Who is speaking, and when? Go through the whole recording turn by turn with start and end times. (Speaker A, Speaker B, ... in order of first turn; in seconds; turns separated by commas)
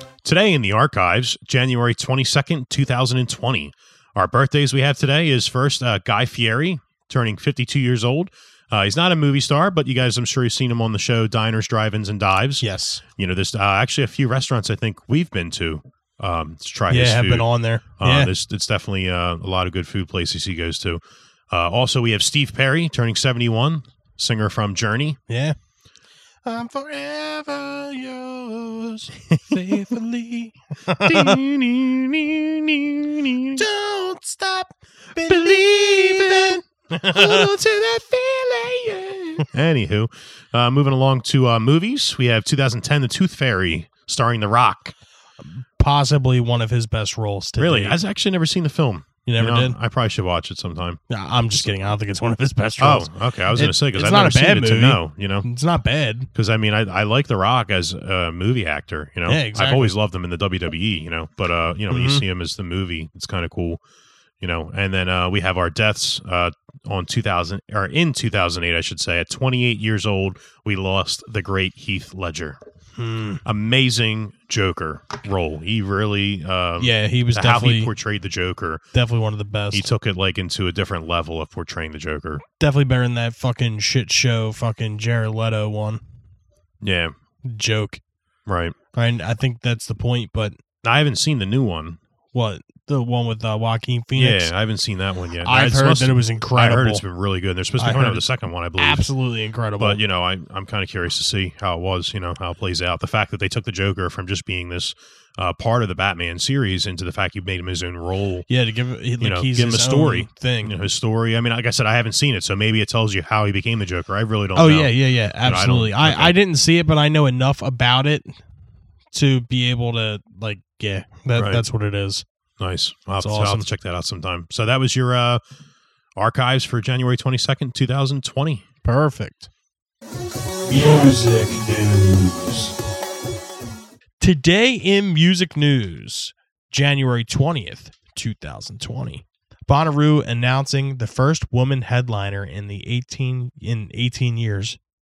Speaker A: 0.2-12.7, Speaker B: 12.6-13.0, Speaker A: 13.2-25.2, Speaker B: 16.9-18.3, Speaker B: 25.3-25.6, Speaker B: 26.4-31.4, Speaker A: 29.5-30.0, Speaker A: 31.0-33.6, Speaker B: 33.6-37.6, Speaker A: 35.2-44.9, Speaker B: 45.5-48.0, Speaker A: 47.6-51.0, Speaker B: 49.3-49.8, Speaker B: 51.1-56.3, Speaker A: 52.8-55.5, Speaker A: 56.3-63.8, Speaker B: 59.3-59.9, Speaker B: 61.9-62.2, Speaker A: 64.4-72.6, Speaker B: 73.0-73.4, Speaker A: 73.4-78.9, Speaker B: 76.8-77.9, Speaker B: 78.9-79.9, Speaker A: 79.7-82.4, Speaker B: 82.6-86.0, Speaker A: 86.8-87.1, Speaker B: 87.5-88.0, Speaker A: 88.5-88.8, Speaker B: 88.9-90.6, Speaker A: 90.8-92.0, Speaker B: 92.3-94.5, Speaker A: 94.2-99.1, Speaker B: 95.4-97.0, Speaker B: 97.8-98.2, Speaker B: 98.8-100.0, Speaker A: 99.8-108.5, Speaker B: 108.5-110.7, Speaker A: 109.2-116.3, Speaker B: 114.6-118.3, Speaker B: 119.1-122.2, Speaker A: 121.3-121.6, Speaker A: 122.6-125.4, Speaker B: 123.2-123.7, Speaker A: 126.2-128.6, Speaker B: 128.8-129.5, Speaker A: 130.9-132.2, Speaker B: 134.2-144.8